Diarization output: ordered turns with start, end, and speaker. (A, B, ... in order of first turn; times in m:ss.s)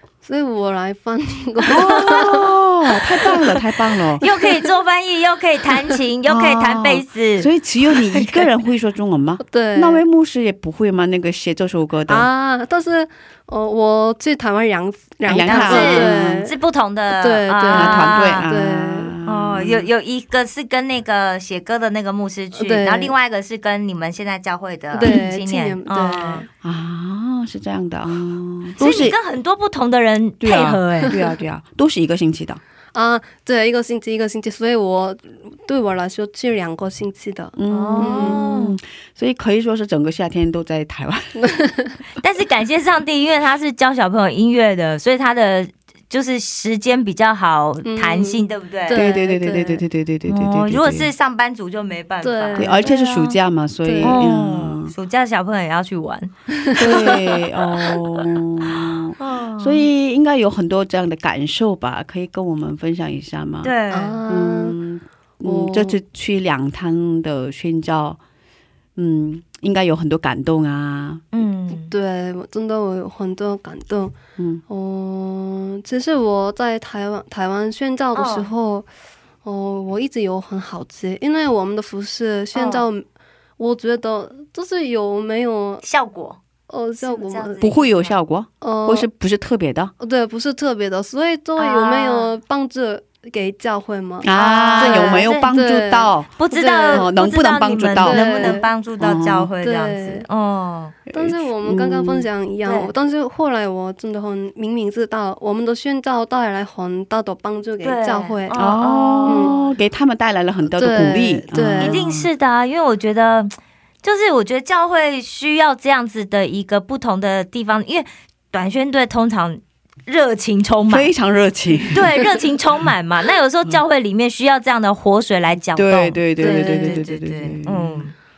0:00.2-0:02.5 A
0:01.7-0:04.2 B
0:01.7-0:02.2 C
0:04.2-0:08.5 C
0:06.3-0:12.3 B
0:09.4-0:10.0 A
0:12.1-0:16.6 A
0:15.2-0:16.5 B
0:15.4-0:18.5 C
0:17.1-0:19.1 A
0:17.7-0:19.9 B
0:19.2-0:26.4 C
0:22.6-0:23.1 A
0:24.9-0:26.5 A
0:26.6-0:29.2 B
0:28.8-0:31.2 C
0:30.4-0:32.6 B
0:32.9-0:38.4 A
0:37.6-0:41.3 B
0:37.7-0:38.8 C
0:41.4-0:41.9 A
0:42.2-0:49.1 C
0:47.8-0:49.8 A
0:48.9-0:51.1 B
0:50.3-0:53.4 C
0:52.2-0:52.9 A
0:52.6-0:54.9 B
0:53.8-0:54.2 A
0:54.0-0:57.2 C
0:56.6-0:57.3 A
0:56.8-1:03.7 B
0:59.2-0:59.9 C
1:03.6-1:04.2 C
1:03.9-1:04.8 A
1:04.3-1:08.2 B
1:05.4-1:06.0 A
1:09.0-1:11.2 B
1:11.3-1:11.9 C
1:11.7-1:14.1 A
1:14.4-1:14.6 B
1:14.7-1:18.9 A
1:18.1-1:18.5 C
1:19.4-1:23.1 A
1:22.5-1:22.9 C
1:23.6-1:25.8 A
1:25.8-1:26.4 C
1:26.7-1:27.7 A
1:27.0-1:28.2 C
1:27.6-1:29.9 B
1:28.6-1:29.1 A
1:30.0-1:37.1 A
1:31.6-1:32.3 C
1:34.2-1:36.3 B
1:34.3-1:35.5 C
1:36.4-1:41.0 C
1:36.9-1:39.5 B
1:38.0-1:38.7 A
1:39.6-1:40.3 A
1:41.1-1:42.3 B
1:41.1-1:48.6 A
1:42.6-1:42.9 C
1:47.8-1:49.8 C
1:48.5-1:52.3 B
1:49.2-1:49.5 A
1:50.8-1:52.0 A
1:51.8-2:01.1 C
2:00.9-2:02.1 B
2:01.9-2:08.1 C
2:05.8-2:08.0 B
2:06.4-2:07.0 A